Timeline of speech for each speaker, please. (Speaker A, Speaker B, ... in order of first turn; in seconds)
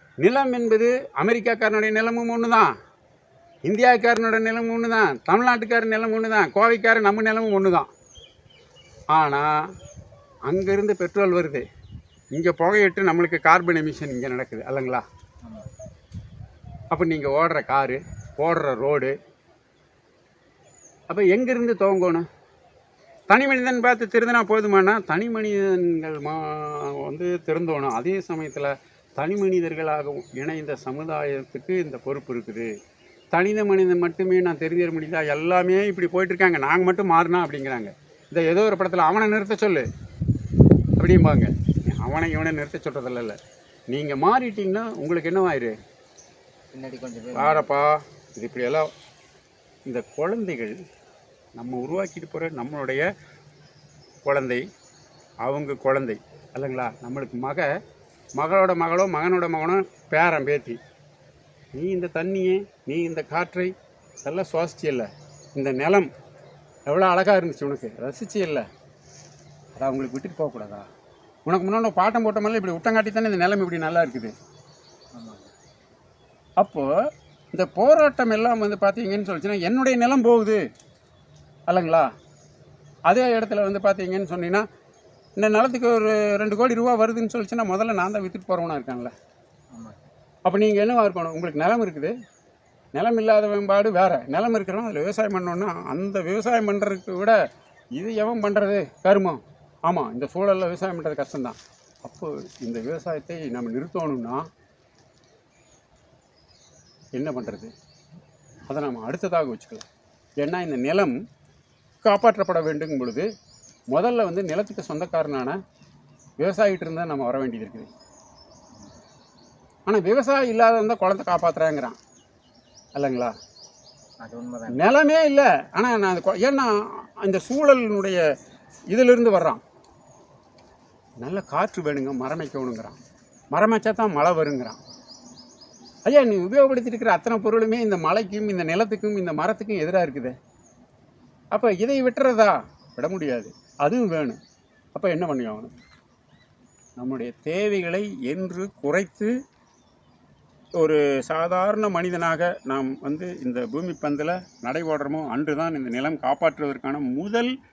Speaker A: 0.2-2.7, 3.7-7.9, 9.1-9.5, 10.5-11.6, 12.3-15.0, 16.9-19.1, 21.1-22.2, 23.3-32.7, 33.3-39.9, 41.0-43.4, 43.9-45.7, 47.3-48.9, 49.9-50.8, 51.5-53.0, 54.2-54.6, 55.4-57.7, 58.4-60.8, 61.7-66.1, 66.9-68.6, 69.8-70.9, 71.5-74.3, 76.6-76.9, 77.5-80.6, 81.7-82.1, 83.1-84.6, 85.4-89.1, 90.4-92.1, 92.9-97.4, 98.0-104.5, 107.1-107.7, 108.7-109.8, 110.4-111.1, 112.0-113.2, 113.9-115.6, 116.4-117.9, 119.9-122.0, 122.9-123.3, 124.7-128.2, 128.9-129.6, 131.2-132.9, 133.5-134.8, 136.1-140.3, 141.5-144.4, 144.9-145.7, 147.0-149.3, 150.8-157.5
Speaker B: 46.7-47.7, 75.1-75.5, 89.7-90.1, 124.2-124.8